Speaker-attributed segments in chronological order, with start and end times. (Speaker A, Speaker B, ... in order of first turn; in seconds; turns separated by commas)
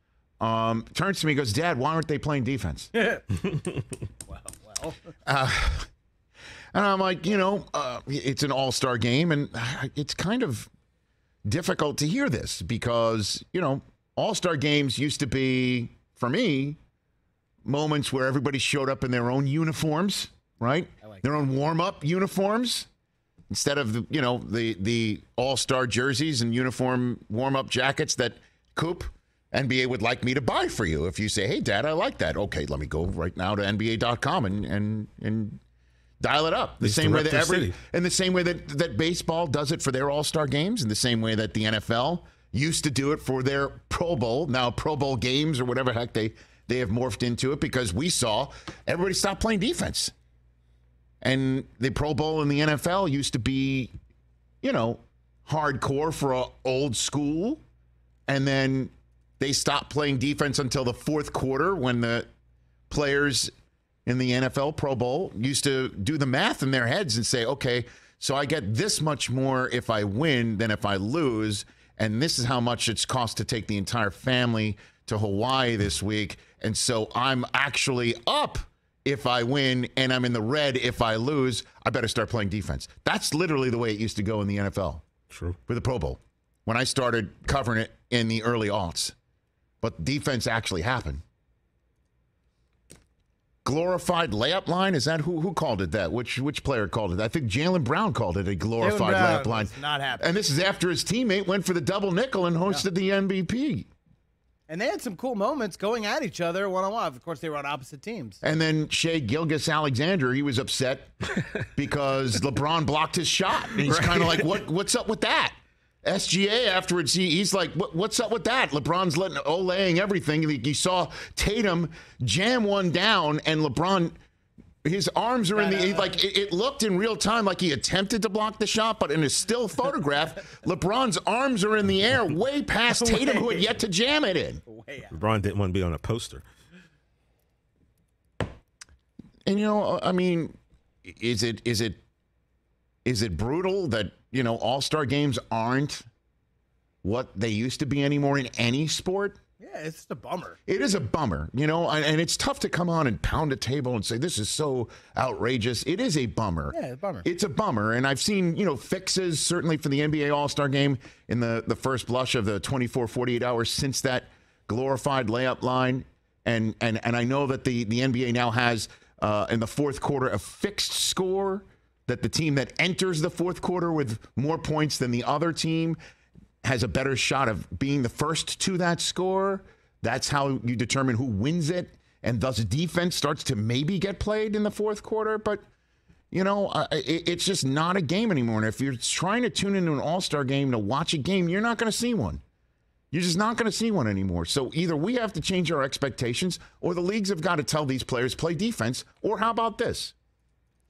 Speaker A: 0.4-2.9, Speaker B: 3.0-3.2, Speaker B: 4.3-5.0, Speaker A: 5.3-5.9, Speaker A: 6.7-10.7, Speaker A: 11.5-16.8, Speaker A: 17.6-22.9, Speaker A: 23.5-35.6, Speaker A: 36.2-50.1, Speaker C: 36.8-37.8, Speaker A: 51.2-53.9, Speaker A: 54.6-57.6, Speaker A: 58.3-62.2, Speaker A: 62.9-63.5, Speaker A: 64.1-85.0, Speaker C: 85.3-85.6, Speaker A: 85.7-89.1, Speaker A: 89.8-91.2, Speaker A: 93.6-103.9, Speaker B: 98.8-100.3, Speaker B: 104.7-108.4, Speaker A: 108.4-124.1, Speaker C: 113.7-114.5, Speaker A: 124.8-134.6, Speaker B: 125.5-126.2, Speaker B: 132.9-133.6, Speaker B: 134.7-135.1, Speaker C: 135.1-136.4, Speaker A: 139.4-140.5, Speaker A: 141.1-142.0, Speaker A: 143.0-146.1, Speaker A: 147.0-149.4, Speaker B: 149.6-150.6, Speaker A: 150.7-176.0, Speaker B: 156.7-157.3, Speaker A: 176.6-185.6, Speaker A: 186.3-192.4, Speaker A: 193.1-200.1